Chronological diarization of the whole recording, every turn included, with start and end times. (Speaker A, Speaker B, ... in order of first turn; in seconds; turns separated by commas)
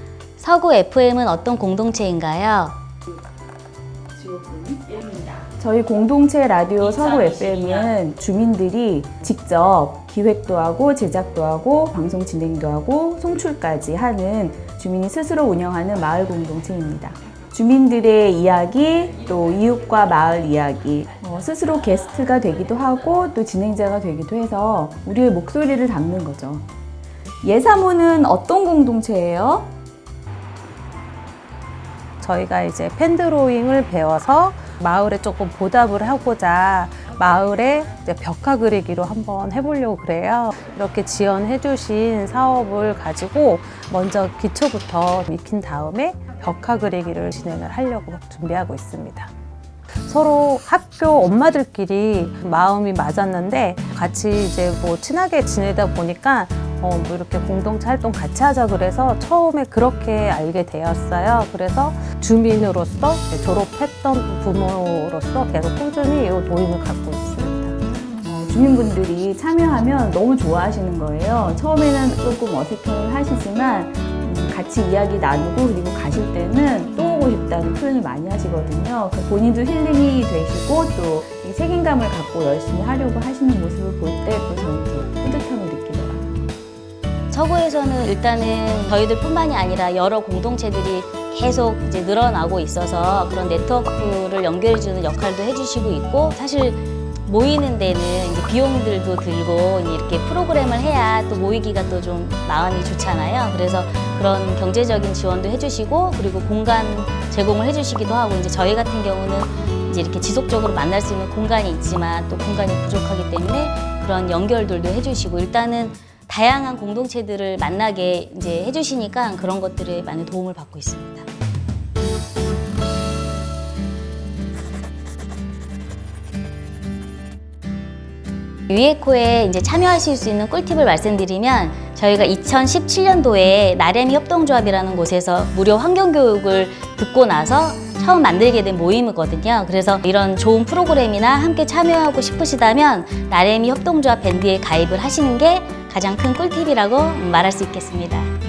Speaker A: 0.4-2.8, Speaker B: 4.1-26.6, Speaker A: 6.8-8.0, Speaker B: 27.4-29.7, Speaker C: 32.2-49.3, Speaker C: 50.0-67.8, Speaker B: 68.2-86.2, Speaker A: 87.3-121.3, Speaker A: 128.7-148.3